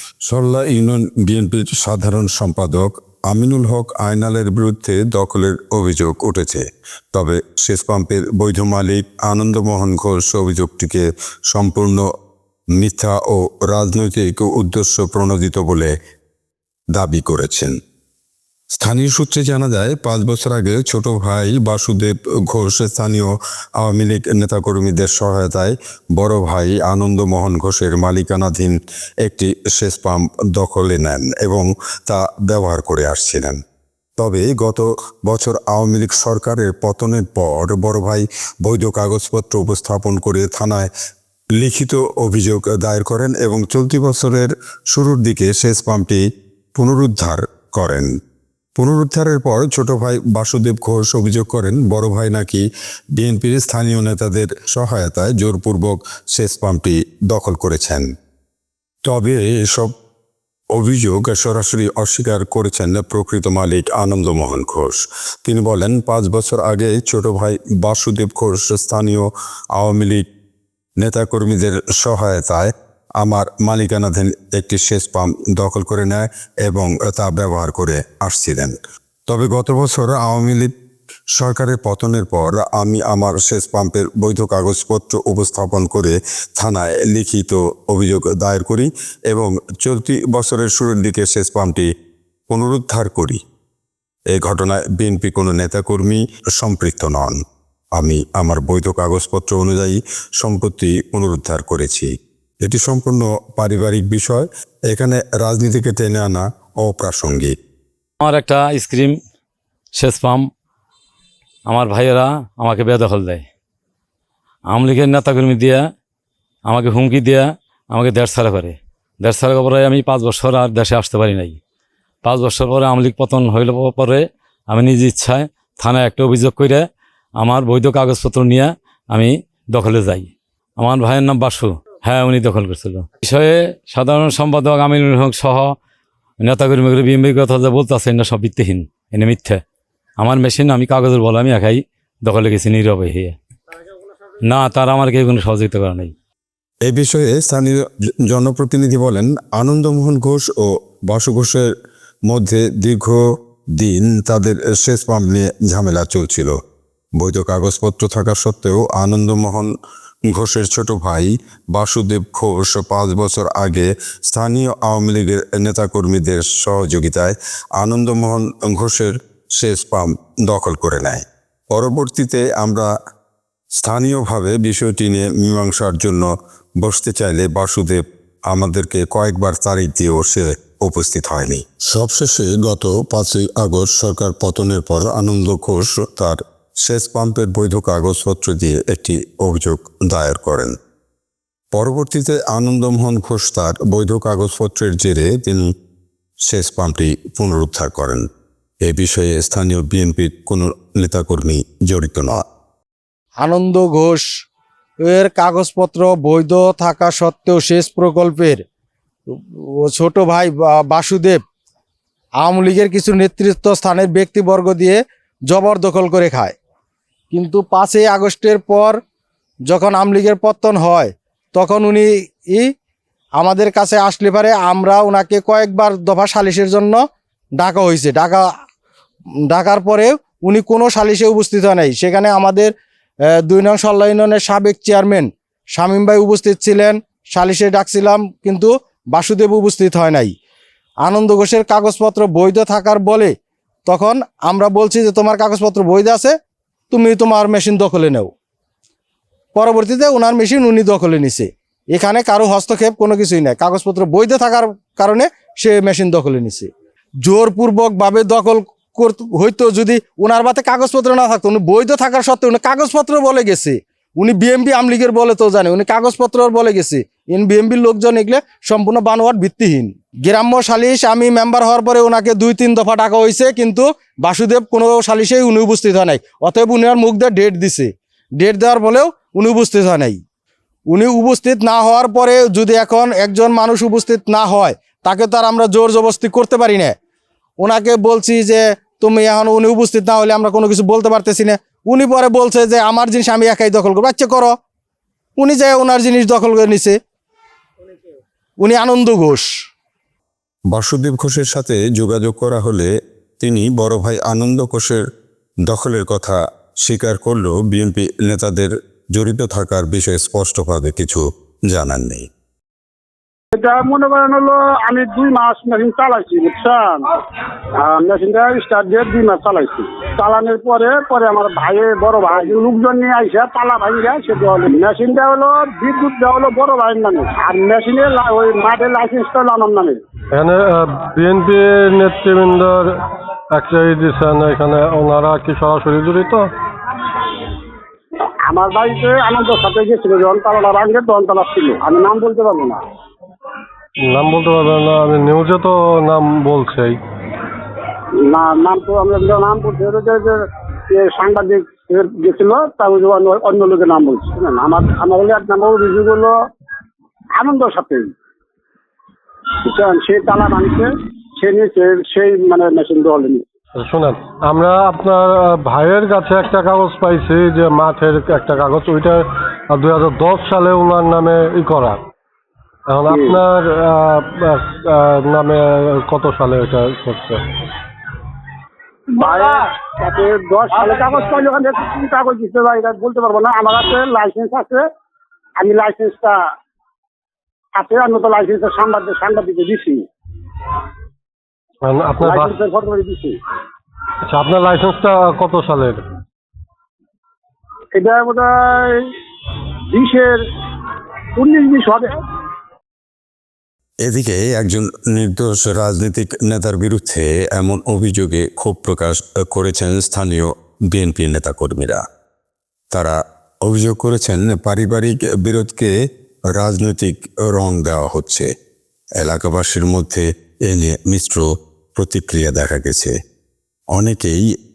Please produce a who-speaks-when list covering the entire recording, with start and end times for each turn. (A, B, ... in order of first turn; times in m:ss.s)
0:00.2-0:12.0 A
0:12.8-0:15.9 A
0:16.9-0:17.7 A
0:18.8-0:33.6 A
0:34.2-0:40.9 A
0:41.6-0:46.2 A
0:46.8-0:48.1 A
0:48.8-0:52.6 A
0:53.2-0:58.0 A
0:59.0-0:59.9 A
1:00.7-1:10.2 A
1:11.0-1:18.8 A
1:19.3-1:20.7 A
1:21.3-1:31.9 A
1:32.5-1:33.4 A
1:34.3-1:37.4 A
1:38.0-1:42.1 A
1:42.6-1:47.5 A
1:48.2-1:49.2 B
1:49.9-1:50.4 B
1:51.7-1:53.4 B
1:54.7-1:55.8 B
1:56.7-2:01.6 B
2:02.2-2:06.8 B
2:07.4-2:15.8 B
2:16.4-2:19.6 B
2:20.2-2:23.4 B
2:24.4-2:26.1 B
2:26.8-2:31.7 A
2:32.3-2:33.2 A
2:33.8-2:36.6 A
2:37.2-2:39.7 A
2:40.3-2:52.9 A
2:53.8-2:56.3 A
2:56.8-3:10.8 A
3:11.7-3:15.7 A
3:16.4-3:18.2 A
3:18.8-3:22.4 A
3:23.4-3:24.3 C
3:25.0-3:28.6 C
3:29.3-3:31.4 C
3:32.4-3:36.5 C
3:37.3-3:39.0 C
3:39.7-3:42.7 C
3:43.4-3:47.0 C
3:47.6-3:48.5 C
3:49.5-3:52.7 C
3:53.4-4:00.3 C
4:01.0-4:03.3 C
4:03.8-4:06.4 C
4:06.9-4:08.3 C
4:09.5-4:16.7 C
4:17.2-4:40.2 C
4:40.9-4:47.0 C
4:47.6-4:54.5 C
4:55.4-4:57.0 C
4:58.6-4:59.5 C
5:00.7-5:05.0 A
5:05.7-5:12.3 A
5:13.5-5:17.0 D
5:17.8-5:30.0 D
5:30.3-5:33.0 E
5:33.5-5:36.5 E
5:38.5-5:42.8 D
5:44.1-5:47.0 E
5:48.2-5:50.4 D
5:50.9-5:56.4 D
5:57.4-5:58.1 D
5:59.6-6:03.4 D
6:03.8-6:12.0 E
6:12.9-6:17.4 E
6:13.1-6:13.4 D
6:19.1-6:24.8 D
6:25.6-6:26.4 D
6:27.8-6:30.0 D
6:31.8-6:32.6 E
6:32.2-6:33.4 D
6:34.2-6:36.0 E
6:37.9-6:39.0 D
6:39.9-6:40.4 D
6:41.4-6:42.2 D
6:44.0-6:52.0 A
6:52.9-6:55.9 A
6:56.5-6:58.5 A
6:59.2-7:03.1 A
7:03.9-7:04.5 A